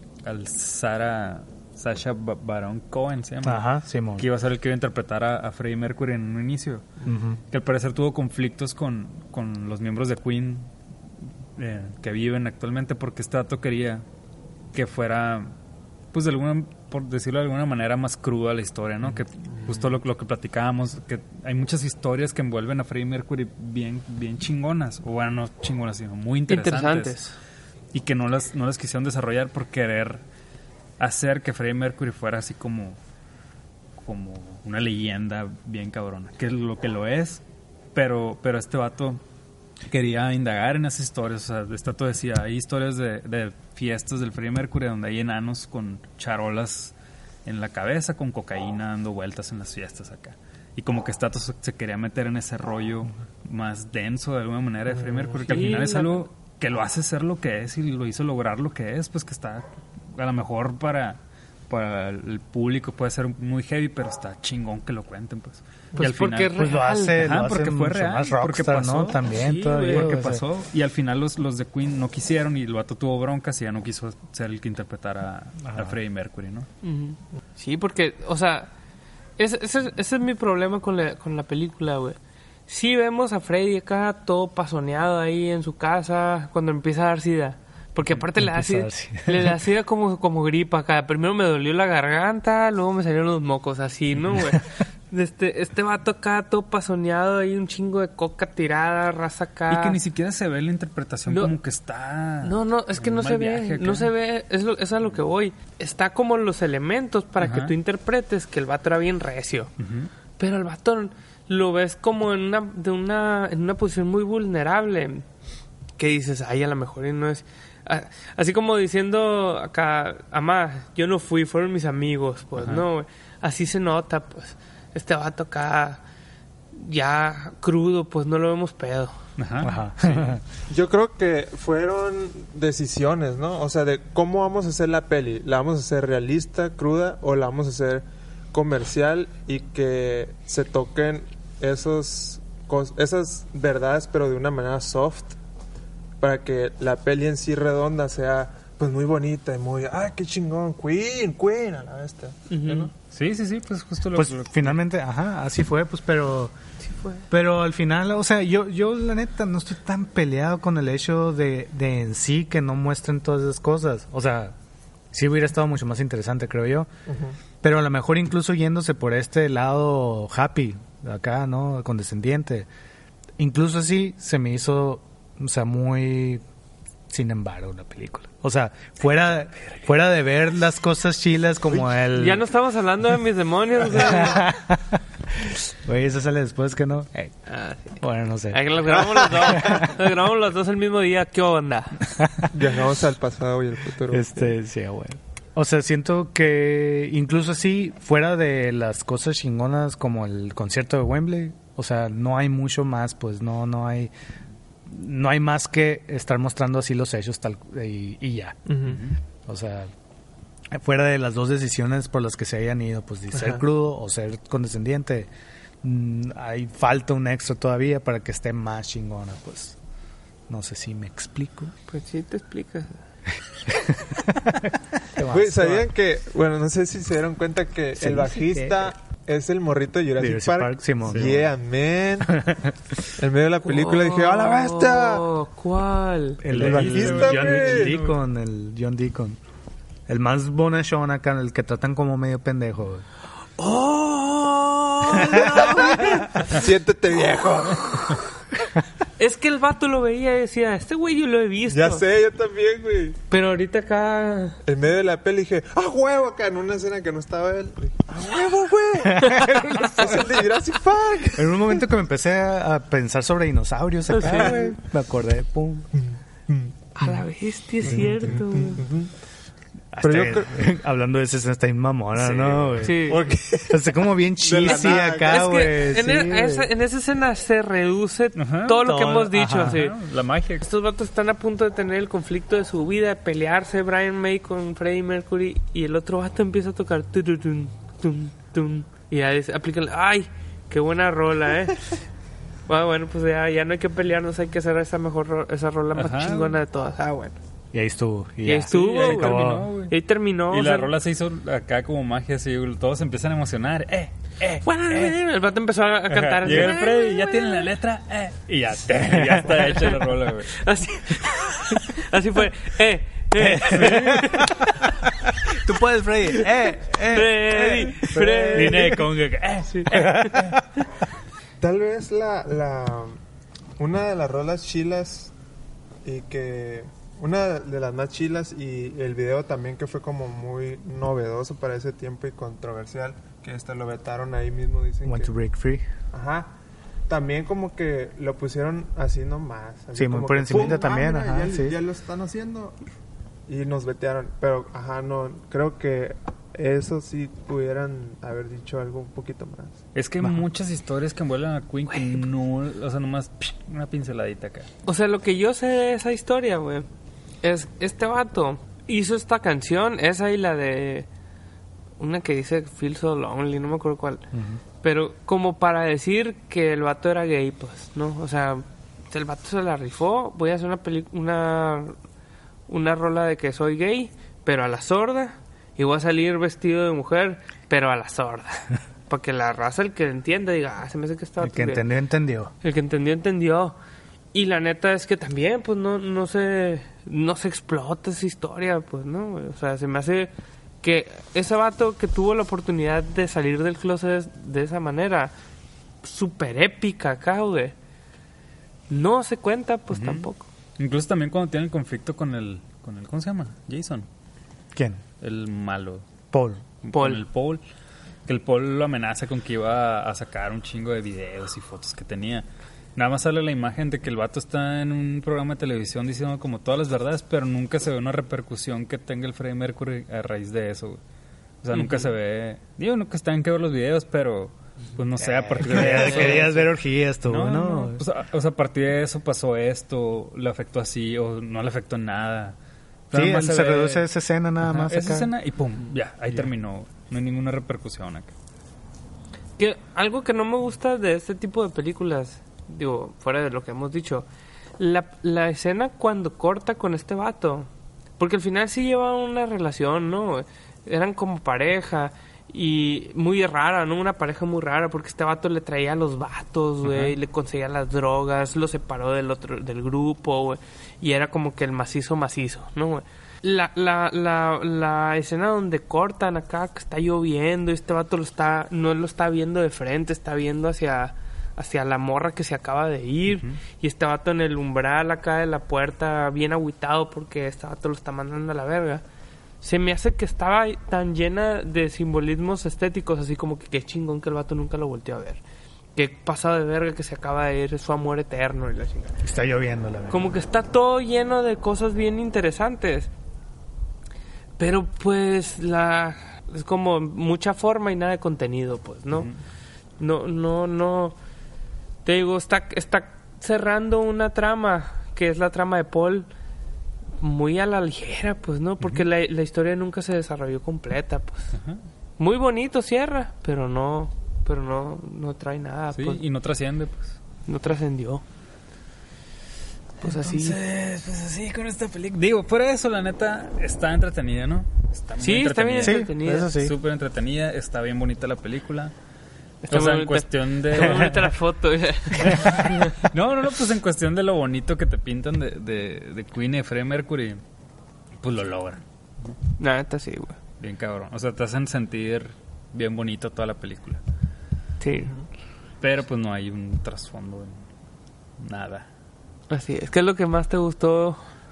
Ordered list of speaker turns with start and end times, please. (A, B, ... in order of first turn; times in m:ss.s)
0:00.2-0:03.6 A
0:03.4-0:04.3 B
0:04.2-0:06.9 A
0:07.0-0:07.4 B
0:07.5-0:10.7 A
0:11.6-0:14.0 A
0:14.7-0:15.5 A
0:16.1-0:27.2 A
0:26.5-0:27.3 C
0:27.9-0:30.2 A
0:31.0-0:33.0 A
0:34.0-0:37.4 A
0:37.9-0:39.2 A
0:39.8-0:46.9 A
0:47.4-1:16.7 A
0:54.9-0:55.6 D
0:55.4-0:56.3 C
1:06.0-1:07.2 C
1:06.5-1:10.4 B
1:15.6-1:16.0 B
1:16.8-1:18.7 C
1:19.4-1:22.2 C
1:22.7-1:40.0 C
1:28.1-1:29.6 B
1:39.7-1:44.1 A
1:41.3-1:41.5 C
1:42.4-1:49.7 C
1:47.4-1:47.7 A
1:49.8-1:50.1 A
1:50.4-1:55.2 C
1:56.0-2:06.0 C
2:02.6-2:02.8 A
2:06.7-2:09.2 C
2:09.4-2:10.4 A
2:09.6-2:10.4 B
2:10.7-2:25.3 D
2:26.2-2:32.9 D
2:32.5-2:32.9 C
2:33.1-2:34.8 A
2:34.1-2:36.5 B
2:36.8-2:37.2 C
2:37.3-2:44.5 B
2:45.1-2:46.9 B
2:47.1-2:47.4 D
2:47.6-2:52.7 B
2:53.4-2:56.4 B
2:57.1-3:02.4 B
3:01.7-3:04.4 C
3:03.8-3:07.3 B
3:07.5-3:08.0 C
3:08.0-3:09.9 B
3:08.5-3:11.9 C
3:12.2-3:12.5 B
3:12.5-3:14.5 D
3:14.1-3:24.1 B
3:24.9-3:29.9 B
3:28.7-3:29.0 D
3:28.9-3:29.2 A
3:30.7-3:35.3 B
3:35.8-3:39.8 B
3:40.5-3:41.7 B
3:41.9-3:43.0 C
3:43.7-3:45.9 B
3:45.3-3:52.3 D
3:48.0-3:48.9 B
3:50.2-3:51.5 B
3:51.1-3:51.4 A
3:52.2-3:52.8 B
3:53.2-3:55.2 D
3:53.6-3:56.4 C
3:56.4-3:59.4 B
3:56.5-3:58.0 D
3:56.5-3:58.1 A
4:00.1-4:03.0 B
4:03.6-4:06.5 C
4:05.3-4:06.1 B
4:05.4-4:08.2 D
4:07.8-4:08.2 C
4:09.2-4:12.0 C
4:11.7-4:13.2 D
4:13.3-4:14.6 C
4:14.6-4:21.8 D
4:19.0-4:20.4 B
4:21.3-4:25.9 B
4:24.1-4:24.6 C
4:24.3-4:24.6 D
4:25.9-4:27.2 D
4:27.0-4:28.8 C
4:27.8-4:28.4 B
4:27.8-4:29.1 D
4:29.9-4:36.7 B
4:30.0-4:30.7 D
4:32.1-4:32.9 A
4:32.8-4:33.2 C
4:33.0-4:35.4 D
4:34.6-4:39.9 C
4:38.3-4:40.7 A
4:38.8-4:39.8 B
4:40.6-4:51.9 C
4:52.7-4:57.4 C
4:55.9-4:56.6 A
4:57.7-4:59.7 B
4:58.4-4:59.3 C
4:58.7-4:59.9 A
4:59.9-5:00.9 C
5:00.5-5:05.2 A
5:04.6-5:07.7 C
5:06.1-5:10.6 A
5:09.0-5:09.5 B
5:10.5-5:14.9 C
5:13.4-5:14.7 B
5:13.7-5:14.4 A
5:15.5-5:18.9 B
5:17.1-5:18.9 C
5:18.1-5:18.8 D
5:18.5-5:20.0 A
5:19.8-5:20.4 C
5:19.9-5:20.8 B
5:21.6-5:23.2 D
5:23.8-5:25.3 D
5:26.0-5:35.3 D
5:35.0-5:35.8 B
5:36.1-5:36.5 D
5:37.1-5:42.8 D
5:39.9-5:41.8 B
5:43.5-5:49.8 D
5:49.9-5:54.7 A
5:51.9-5:52.2 C
5:54.8-5:56.8 C
5:57.4-6:01.1 C
6:02.0-6:04.2 C
6:04.3-6:04.6 B
6:04.8-6:12.0 C
6:12.7-6:21.8 C
6:21.4-6:22.5 B
6:22.6-6:23.8 C
6:24.3-6:30.3 C
6:30.8-6:35.3 C
6:36.0-6:37.7 C
6:38.9-6:40.4 C
6:39.9-6:40.3 A
6:40.8-6:44.1 A
6:44.7-6:45.0 B
6:45.2-6:46.0 A
6:46.3-6:46.6 B
6:46.8-6:47.6 A
6:46.9-6:47.2 C
6:48.3-7:01.0 A
7:01.6-7:06.7 A
7:01.7-7:02.0 C
7:05.2-7:08.0 B
7:07.2-7:12.6 A
7:13.1-7:14.1 A
7:13.1-7:15.3 B
7:14.7-7:18.3 A
7:19.6-7:24.2 C
7:24.8-7:59.0 C
7:36.8-7:37.1 A
7:53.3-7:53.6 A
7:59.6-8:05.4 C
8:06.0-8:09.1 C
8:09.2-8:10.4 B
8:10.1-8:13.1 C
8:14.6-8:19.3 C
8:20.0-8:21.2 C
8:22.0-8:26.3 C
8:27.2-8:31.5 C
8:31.5-8:31.8 A
8:32.2-8:36.2 C
8:35.9-8:37.2 A
8:37.5-8:38.2 C
8:40.0-8:40.6 C
8:40.0-8:48.9 A
8:45.2-8:46.5 C
8:45.8-8:46.8 B
8:49.6-8:52.9 C
8:49.7-8:51.3 A
8:52.2-8:57.4 A
8:58.2-8:59.4 A
8:59.6-9:00.4 C
9:00.6-9:04.0 A
9:04.8-9:05.1 C
9:05.8-9:07.6 A
9:08.4-9:08.9 A
9:09.5-9:11.2 C